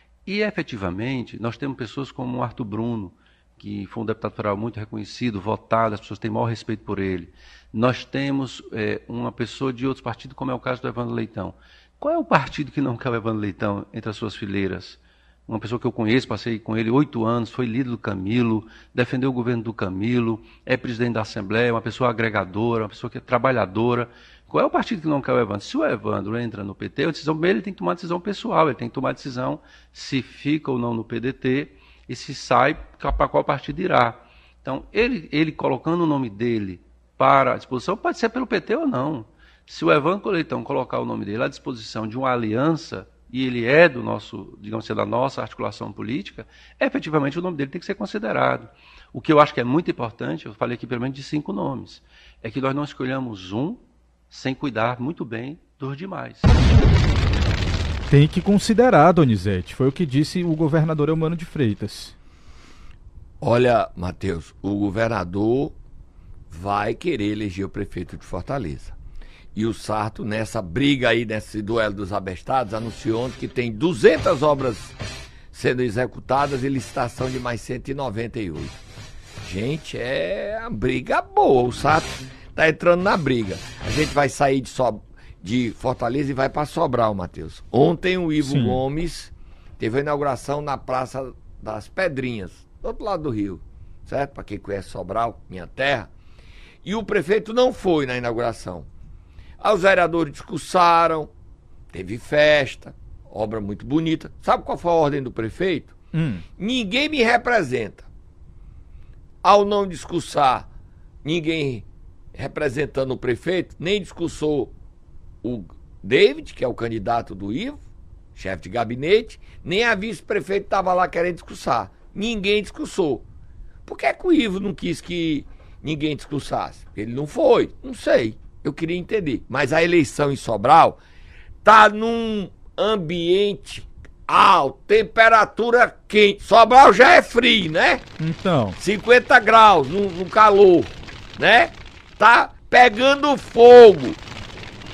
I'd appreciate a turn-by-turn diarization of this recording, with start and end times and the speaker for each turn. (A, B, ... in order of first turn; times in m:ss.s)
0:00.2-0:56.5 A
0:58.1-1:02.1 B
1:03.4-1:05.7 C
1:06.5-1:09.0 C
1:09.5-1:15.0 C
1:15.5-1:18.8 C
1:19.4-1:36.1 C
1:28.4-1:28.8 B
1:36.8-1:38.9 C
1:39.6-1:41.3 C
1:41.9-1:45.9 C
1:46.1-1:46.4 B
1:46.6-1:48.1 C
1:49.4-1:50.7 C
1:51.2-1:54.7 C
1:55.4-1:57.8 C
1:58.3-2:03.2 C
2:03.8-2:11.0 C
2:11.6-2:18.0 C
2:18.2-2:18.8 B
2:18.8-2:24.2 C